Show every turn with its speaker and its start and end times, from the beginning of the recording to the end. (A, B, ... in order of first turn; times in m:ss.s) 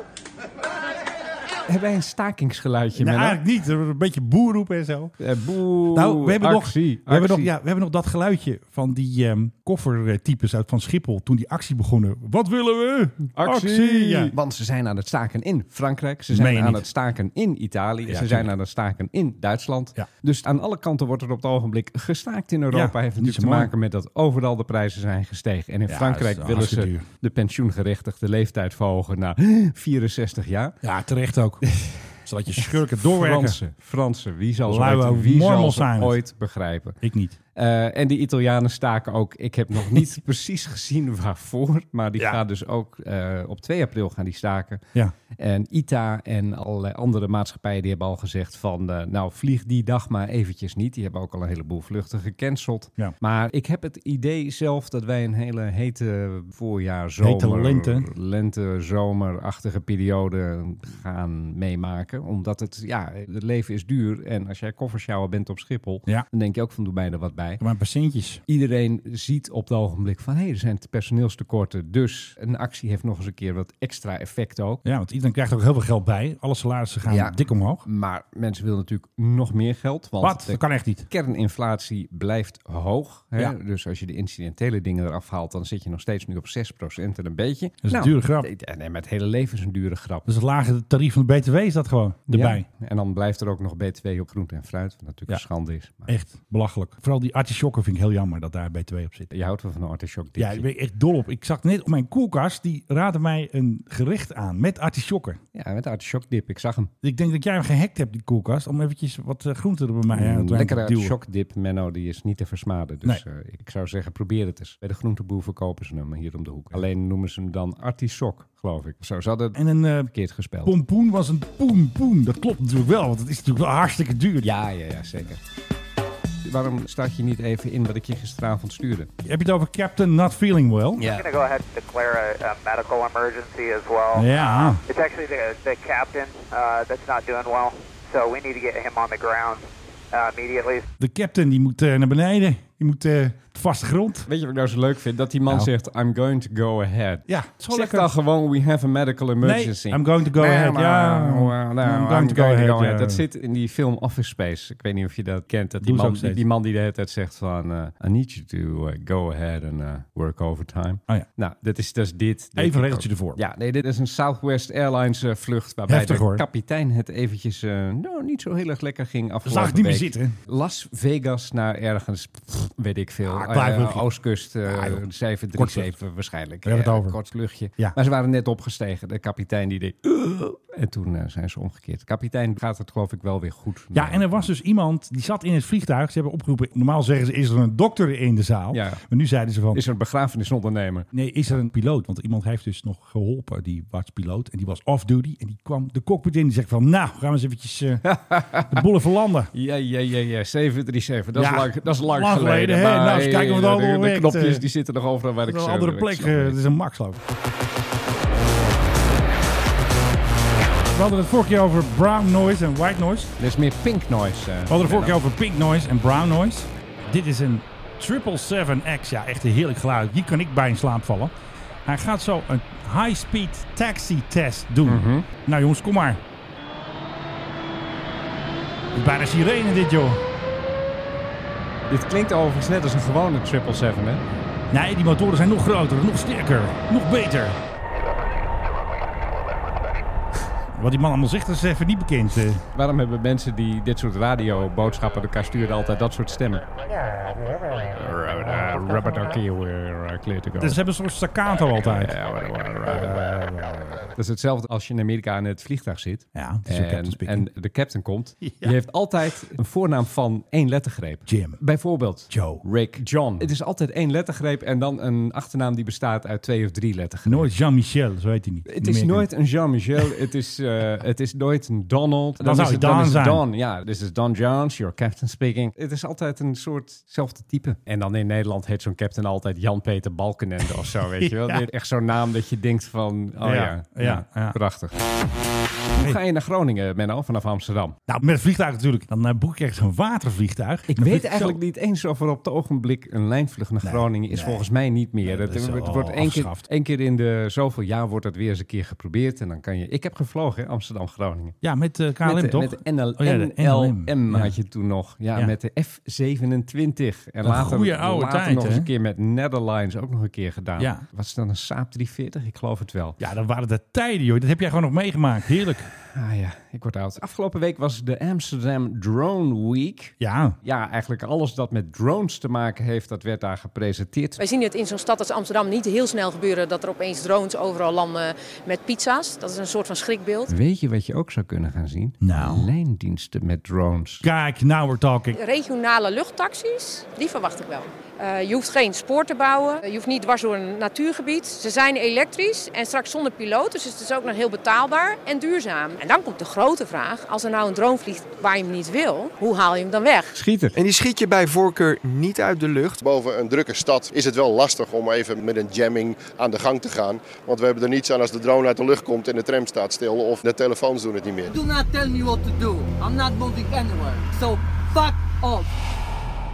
0:01.7-0:03.4 A
0:03.0-0:05.2 B
0:05.2-0:07.5 A
0:05.9-0:14.3 B
0:13.3-0:30.8 A
0:16.3-0:16.8 B
0:18.1-0:18.5 B
0:22.7-0:23.7 B
0:25.9-0:27.0 B
0:30.8-0:33.6 B
0:31.6-0:37.0 A
0:34.6-0:36.2 B
0:37.0-0:37.4 B
0:37.6-1:07.6 A
0:57.2-0:58.1 B
1:07.6-1:08.4 B
1:08.5-1:14.8 A
1:14.8-1:17.8 B
1:17.1-1:30.3 A
1:20.2-1:21.1 B
1:27.8-1:28.5 B
1:30.2-1:32.6 B
1:32.3-1:36.1 A
1:36.1-1:39.3 B
1:39.3-1:40.6 A
1:40.4-1:45.4 B
1:45.5-1:46.9 A
1:47.0-1:51.2 B
1:50.1-1:59.6 A
1:59.5-2:00.1 B
2:00.1-2:00.8 A
2:00.6-2:04.5 B
2:04.4-2:05.4 A
2:06.4-2:09.1 A
2:09.2-2:11.1 B
2:11.0-2:11.2 A
2:11.0-2:20.8 C
2:14.1-2:14.8 B
2:21.0-2:24.3 B
2:24.3-3:04.3 A
2:27.3-2:28.1 B
2:29.4-2:33.2 B
2:35.8-2:36.4 B
2:42.6-2:43.4 B
2:45.9-2:46.4 B
2:49.4-2:50.4 B
2:53.2-2:55.9 B
2:56.6-2:57.2 B
3:03.9-3:09.8 B
3:08.7-3:09.0 A
3:09.7-3:11.1 A
3:11.1-3:18.1 B
3:18.0-3:18.8 A
3:18.6-3:19.5 B
3:19.5-3:26.6 A
3:21.3-3:24.6 B
3:25.5-3:27.2 B
3:30.9-3:33.3 B
3:33.4-3:35.2 A
3:34.7-3:41.3 B
3:41.8-3:46.2 B
3:44.8-3:45.2 A
3:48.9-3:50.2 B
3:51.9-3:54.2 A
3:54.7-3:57.6 B
4:00.7-4:02.6 B
4:02.7-4:06.6 A
4:07.9-4:10.8 A
4:10.6-4:12.1 B
4:11.8-4:27.5 A
4:12.9-4:13.8 B
4:16.3-4:17.5 B
4:18.4-4:18.7 B
4:21.3-4:21.6 B
4:22.3-4:22.6 B
4:27.2-4:29.3 B
4:28.7-4:45.0 A
4:32.4-4:33.4 B
4:41.2-4:41.6 B
4:43.4-4:44.6 B
4:45.9-4:48.0 A
4:48.1-4:51.6 B
4:50.9-5:01.6 A
4:53.8-4:54.7 B
4:55.2-4:56.6 B
5:01.6-5:04.5 B
5:02.2-5:13.2 A
5:07.4-5:08.9 B
5:10.8-5:11.0 B
5:13.2-5:15.9 B
5:16.0-5:24.4 A
5:20.2-5:20.6 B
5:24.4-5:30.5 D
5:30.5-5:34.2 A
5:32.2-5:32.7 B
5:34.2-5:35.4 B
5:35.3-5:50.4 D
5:50.3-5:50.8 A
5:50.8-5:53.0 E
5:53.0-6:01.6 F
6:01.5-6:05.7 G